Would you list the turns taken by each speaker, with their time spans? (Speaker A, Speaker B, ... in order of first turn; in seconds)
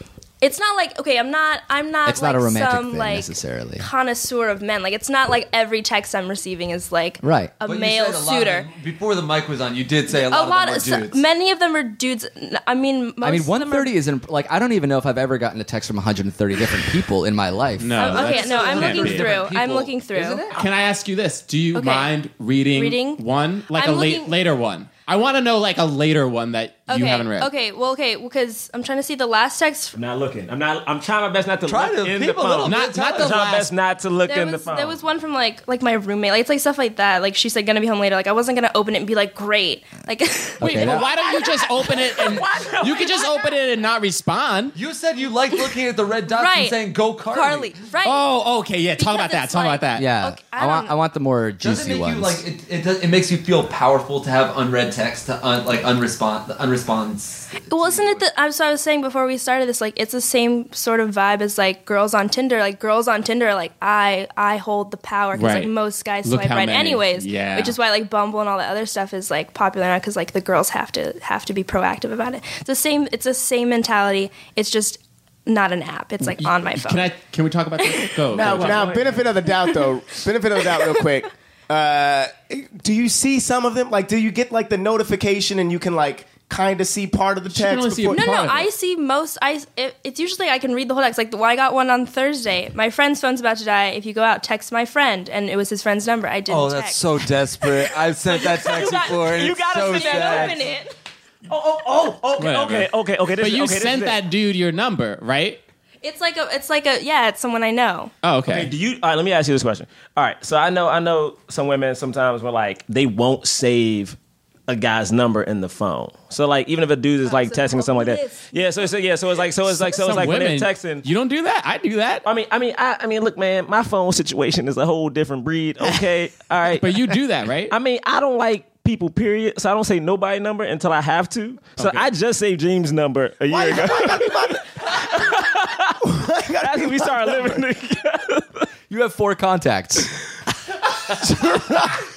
Speaker A: 0.4-8.7, 10.1-13.9, 17.9-20.5, 21.7-22.1, 22.7-24.3, 26.9-29.9, 34.3-42.4, 46.3-46.8, 47.3-48.2, 49.0-51.0, 57.7-77.2, 77.8-78.2, 88.1-100.9, 106.0-108.1, 117.2-118.9
Speaker B: 2.0-3.9, 7.2-7.5, 13.2-18.2, 20.1-20.6, 40.6-41.0, 49.9-52.4, 138.9-140.1
Speaker C: 7.6-11.2, 18.1-20.4, 31.6-33.4, 44.7-47.8, 51.6-58.2, 96.5-100.6
Speaker D: 17.8-19.4, 20.5-27.5, 32.6-33.7, 40.6-44.8, 48.0-50.1, 65.3-65.7, 66.2-67.8, 76.2-78.9, 87.5-88.7, 102.4-105.6, 108.2-108.7, 119.7-122.2, 126.8-127.7, 131.8-132.1
Speaker E: 29.9-35.0, 42.2-43.3, 78.4-79.3, 98.3-100.5, 101.5-104.2, 108.5-114.2, 114.7-121.0, 122.2-126.9, 127.7-136.0, 136.6-138.6
Speaker F: 78.3-88.2, 133.5-135.4, 136.0-137.6, 141.2-141.9